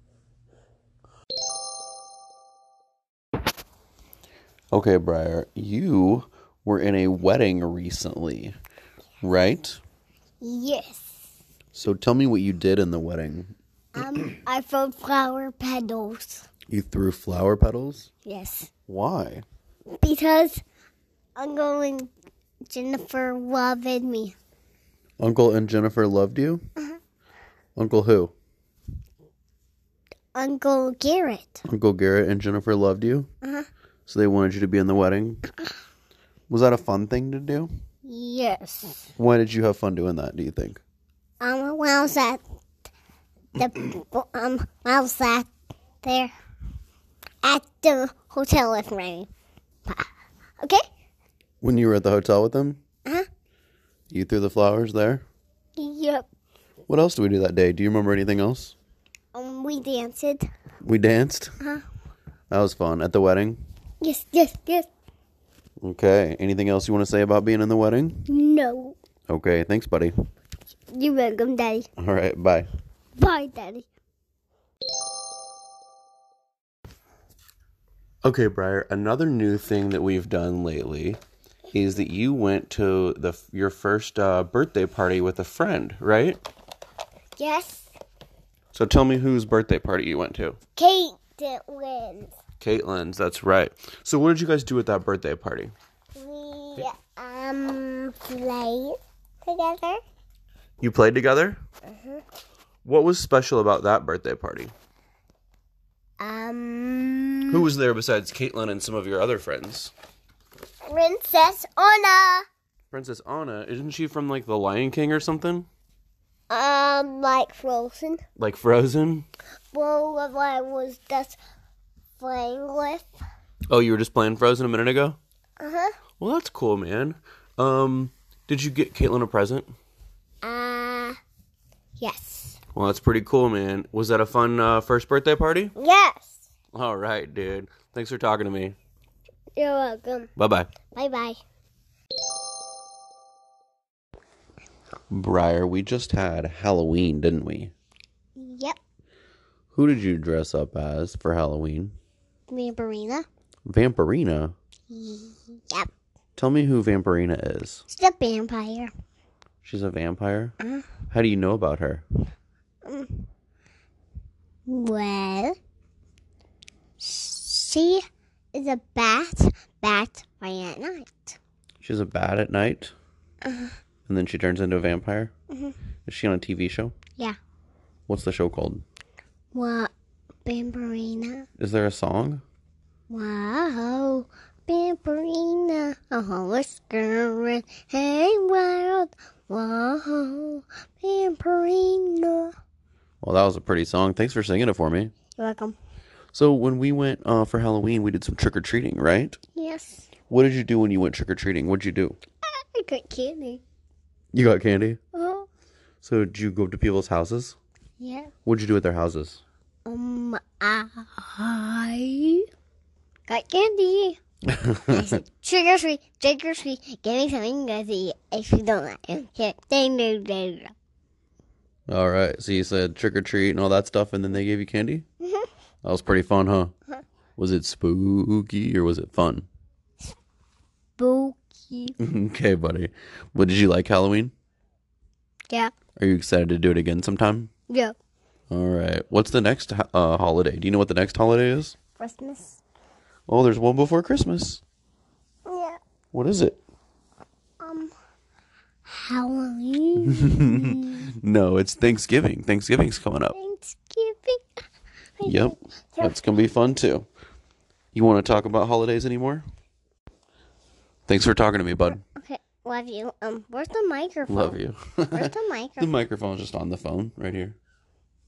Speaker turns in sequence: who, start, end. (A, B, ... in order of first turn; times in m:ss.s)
0:04.7-0:08.5 A
0:09.2-0:09.8 A
0:10.4-0:11.2 B
0:11.7-0:13.5 A
0:13.9-0:16.4 B
0:16.7-0:18.1 A
0:18.2-0:18.7 B
0:18.9-0:19.4 A
0:20.0-0:20.6 B
0:21.4-0:22.1 B
0:22.7-0:24.3 B
0:25.2-0:26.6 A
0:27.8-0:28.3 A
0:30.3-0:31.6 B
0:31.6-0:33.3 A
0:33.4-0:33.7 B
0:34.1-0:35.5 A
0:36.5-0:37.7 A
0:38.0-0:39.1 B
0:39.2-0:40.8 A
0:41.4-0:42.4 B
0:43.6-0:45.5 B
0:46.0-0:46.3 B
0:47.4-0:49.3 B
0:51.6-0:52.8 A
0:54.1-0:55.2 A
0:55.8-0:56.3 B
0:56.9-0:58.7 A
0:59.3-1:00.4 B
1:00.8-1:01.5 A
1:02.5-1:03.6 A
1:04.0-1:04.9 B
1:05.8-1:08.2 A
1:08.3-1:09.0 B
1:09.3-1:10.1 A
1:10.9-1:11.9 B
1:12.0-1:12.7 A
1:13.2-1:13.9 B
1:18.2-1:21.2 A
1:21.7-1:26.4 A
1:27.4-1:27.9 B
1:28.7-1:30.6 A
1:30.8-1:32.3 B
1:32.6-1:35.7 A
1:36.1-1:40.0 B
1:40.8-1:41.6 A
1:41.9-1:42.2 B
1:42.8-1:44.7 A
1:46.2-1:47.6 B
1:47.5-1:49.9 A
1:50.9-1:52.4 B
1:52.9-1:55.7 A
1:56.5-1:58.2 B
1:58.4-1:59.3 A
1:59.7-2:01.4 B
2:02.2-2:03.1 B
2:03.7-2:05.2 A
2:05.6-2:05.9 B
2:06.2-2:09.7 A
2:10.4-2:11.2 B
2:12.0-2:12.6 B
2:12.7-2:15.7 A
2:15.8-2:16.4 B
2:16.7-2:18.8 A
2:19.6-2:20.3 B
2:20.4-2:20.7 A
2:20.9-2:21.4 B
2:25.1-2:27.7 A
2:28.4-2:28.8 B
2:29.7-2:31.9 A
2:32.5-2:33.3 B
2:33.7-2:34.5 A
2:34.9-2:35.9 B
2:36.4-2:37.8 A
2:37.9-2:38.9 B
2:39.6-2:40.5 A
2:41.1-2:42.0 A
2:42.8-2:43.3 B
2:44.7-2:45.6 B
2:47.0-2:48.0 B
2:48.5-2:51.4 B
2:51.8-2:52.9 A
2:53.4-2:53.7 B
2:54.1-2:55.3 A
2:56.0-2:56.9 A
2:58.1-2:58.8 A
2:59.5-2:59.9 B
3:00.4-3:01.4 B
3:01.6-3:02.4 A
3:03.1-3:12.5 B
3:13.2-3:15.1 A
3:15.4-3:15.8 B
3:16.3-3:19.4 A
3:19.6-3:20.1 B
3:20.3-3:22.2 A
3:22.4-3:23.6 B
3:24.3-3:25.0 A
3:25.1-3:25.5 B
3:26.0-3:27.6 A
3:28.0-3:28.3 B
3:28.4-3:29.4 A
3:29.8-3:32.5 B
3:33.3-3:34.2 B
3:34.5-3:35.1 A
3:34.9-3:40.7 B
3:41.9-3:45.0 A
3:45.8-3:46.7 A
3:47.4-3:49.5 A
3:51.0-3:51.9 B
3:52.0-3:54.3 A
3:56.0-3:57.5 A
3:57.7-3:57.9 B
3:58.5-4:01.8 A
4:02.0-4:02.6 B
4:03.3-4:04.6 A
4:05.5-4:05.8 B
4:06.1-4:06.6 A
4:07.6-4:07.9 B
4:08.9-4:11.1 B
4:10.0-4:13.4 A
4:13.3-4:14.6 B
4:15.2-4:16.2 B
4:15.2-4:17.1 A
4:17.9-4:19.4 A
4:21.1-4:22.0 A
4:22.2-4:24.6 B
4:24.3-4:27.6 A
4:25.1-4:25.9 B